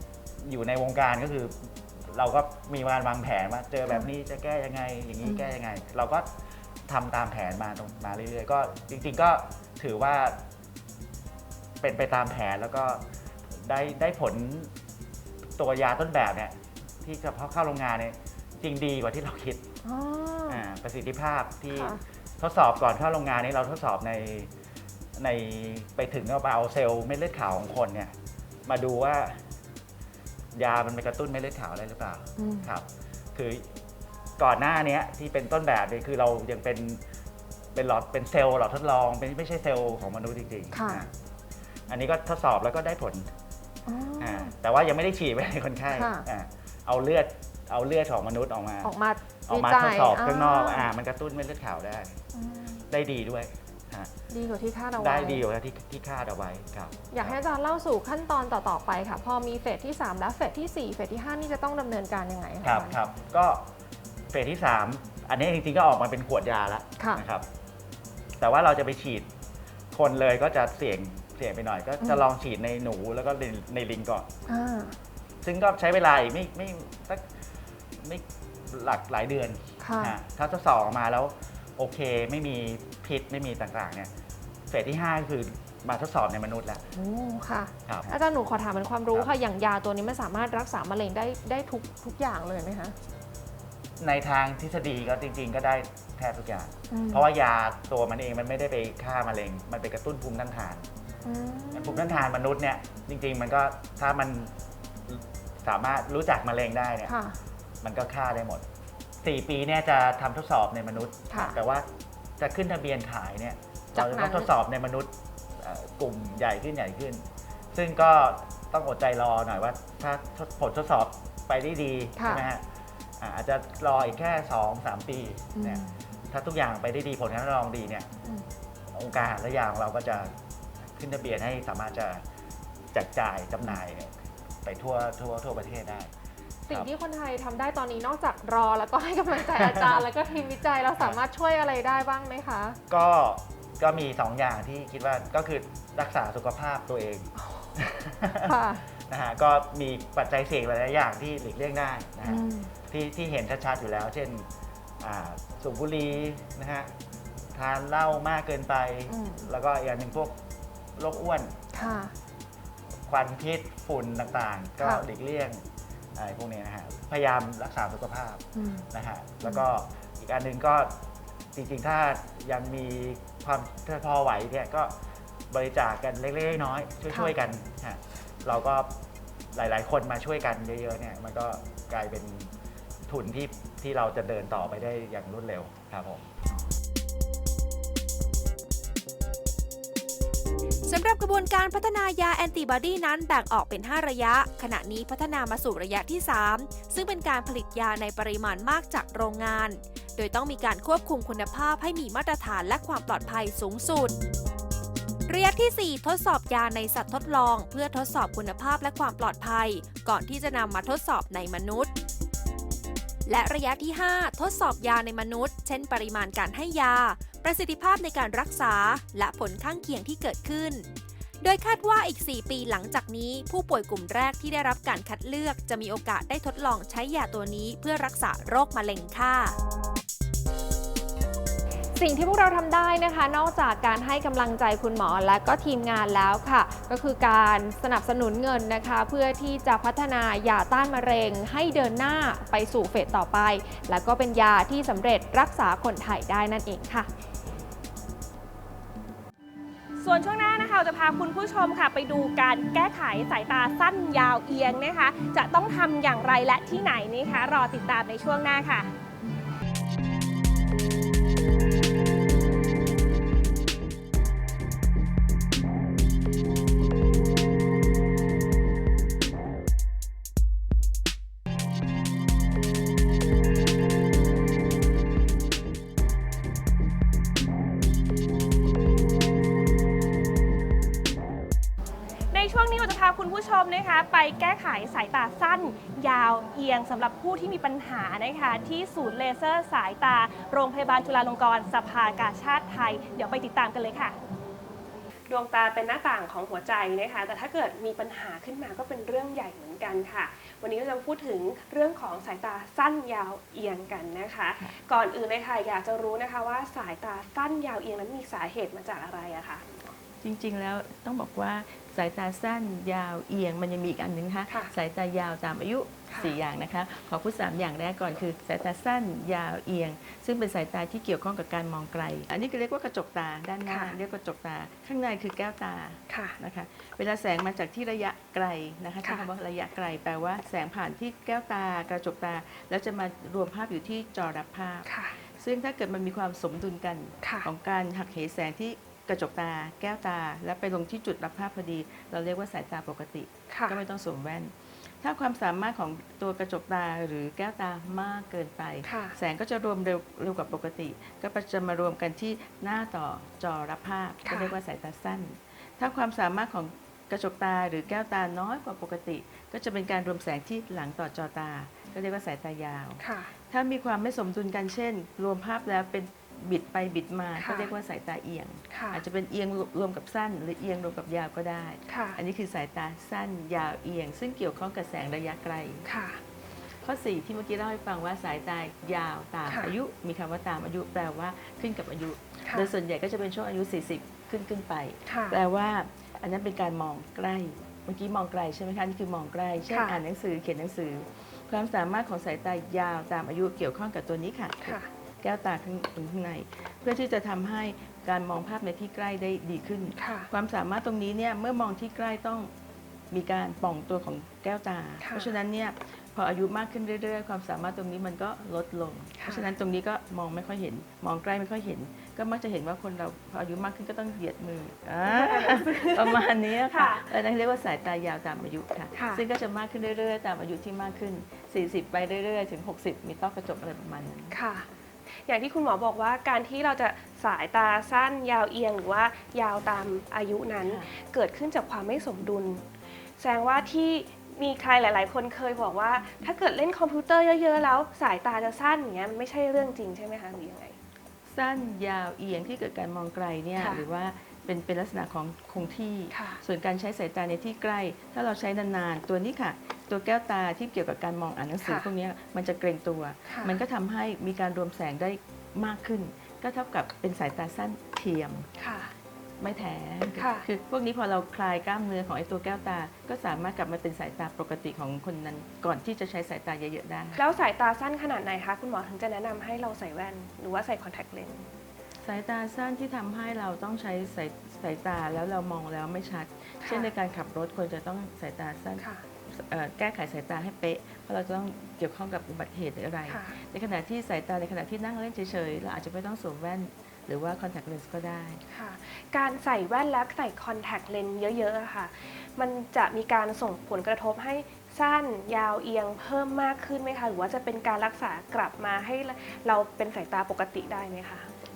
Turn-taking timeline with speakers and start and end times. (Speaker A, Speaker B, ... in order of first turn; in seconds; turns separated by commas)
Speaker A: 0.4-6.3, Speaker A: 6.9-10.4, Speaker A: 11.8-13.0, Speaker A: 13.6-14.7, Speaker A: 15.6-19.7, Speaker B: 19.8-20.6, Speaker A: 20.5-24.5, Speaker B: 21.7-22.0, Speaker A: 25.2-28.1, Speaker A: 28.6-29.4, Speaker A: 30.5-33.8, Speaker B: 32.4-32.7, Speaker A: 34.4-37.0, Speaker A: 37.7-41.1, Speaker B: 40.7-41.0, Speaker A: 41.9-43.3, Speaker B: 43.9-44.5, Speaker A: 44.2-48.9, Speaker B: 45.9-46.2, Speaker B: 48.8-50.9, Speaker A: 49.5-52.2, Speaker B: 52.3-52.8, Speaker A: 52.9-54.1, Speaker B: 54.3-55.4, Speaker A: 55.0-57.4, Speaker B: 57.1-63.0, Speaker A: 62.6-63.7, Speaker A: 64.3-67.4, Speaker A: 68.4-69.3, Speaker A: 69.9-74.3, Speaker B: 74.5-74.9, Speaker A: 75.4-77.3, Speaker A: 78.0-84.1, Speaker B: 79.8-80.2, Speaker A: 84.7-86.8, Speaker B: 86.9-93.0, Speaker A: 87.9-88.2, Speaker A: 94.0-100.9, Speaker B: 96.9-97.3, Speaker B: 101.2-102.2, Speaker A: 101.7-104.5, Speaker A: 105.1-107.1, Speaker B: 107.0-107.4, Speaker A: 107.8-108.6, Speaker A: 109.2-111.9, Speaker B: 111.3-111.6, Speaker A: 112.4-122.6, Speaker B: 114.0-114.5, Speaker B: 122.2-122.5, Speaker A: 123.2-128.1, Speaker B: 125.5-126.0, Speaker A: 128.9-132.2, Speaker A: 132.9-136.1, Speaker B: 136.7-142.8, Speaker A: 139.5-140.0, Speaker A: 142.9-154.5, Speaker B: 147.4-147.7, Speaker B: 148.4-148.8, Speaker B: 152.2-152.7, Speaker A: 155.0-156.9, Speaker A: 157.5-160.4, Speaker B: 159.1-159.5, Speaker A: 161.0-161.6, Speaker B: 161.7-162.1, Speaker A: 163.1-165.6, Speaker B: 164.8-165.1, Speaker A: 166.2-171.0, Speaker B: 168.5-168.9, Speaker A: 171.5-174.9, Speaker A: 175.5-178.9, Speaker A: 179.5-182.5, Speaker A: 183.1-186.3, Speaker C: 190.8-204.1, Speaker C: 205.3-211.9, Speaker C: 213.3-220.8, Speaker C: 221.4-229.6, Speaker B: 231.9-247.1, Speaker D: 250.0-258.9, Speaker D: 282.3-294.1, Speaker D: 295.3-309.9, Speaker E: 310.2-375.9, Speaker D: 316.1-316.3, Speaker D: 323.7-323.9, Speaker D: 326.1-326.4, Speaker D: 334.9-335.2, Speaker D: 337.2-337.5, Speaker D: 343.5-343.8, Speaker D: 348.8-349.1, Speaker D: 354.2-354.6, Speaker D: 363.0-363.3, Speaker D: 367.4-367.7, Speaker D: 368.7-369.0, Speaker D: 371.9-372.2, Speaker D: 375.9-376.2, Speaker E: 376.8-402.5, Speaker D: 379.5-379.7, Speaker D: 382.4-382.7, Speaker D: 385.1-385.4, Speaker D: 389.7-390.0, Speaker D: 394.6-394.9, Speaker D: 399.9-400.3, Speaker E: 403.1-424.4, Speaker D: 405.0-405.3, Speaker D: 409.2-409.5, Speaker D: 415.1-417.1, Speaker D: 418.9-419.2, Speaker D: 424.3-432.6, Speaker E: 430.6-430.9, Speaker D: 433.2-440.8, Speaker E: 441.2-458.5, Speaker D: 446.1-446.4, Speaker D: 453.2-453.6, Speaker D: 458.6-458.9, Speaker E: 459.4-467.2, Speaker D: 460.2-460.5, Speaker D: 467.1-471.5, Speaker E: 472.0-488.4, Speaker D: 476.6-476.9, Speaker D: 478.8-479.0, Speaker D: 483.1-483.3, Speaker D: 488.5-501.3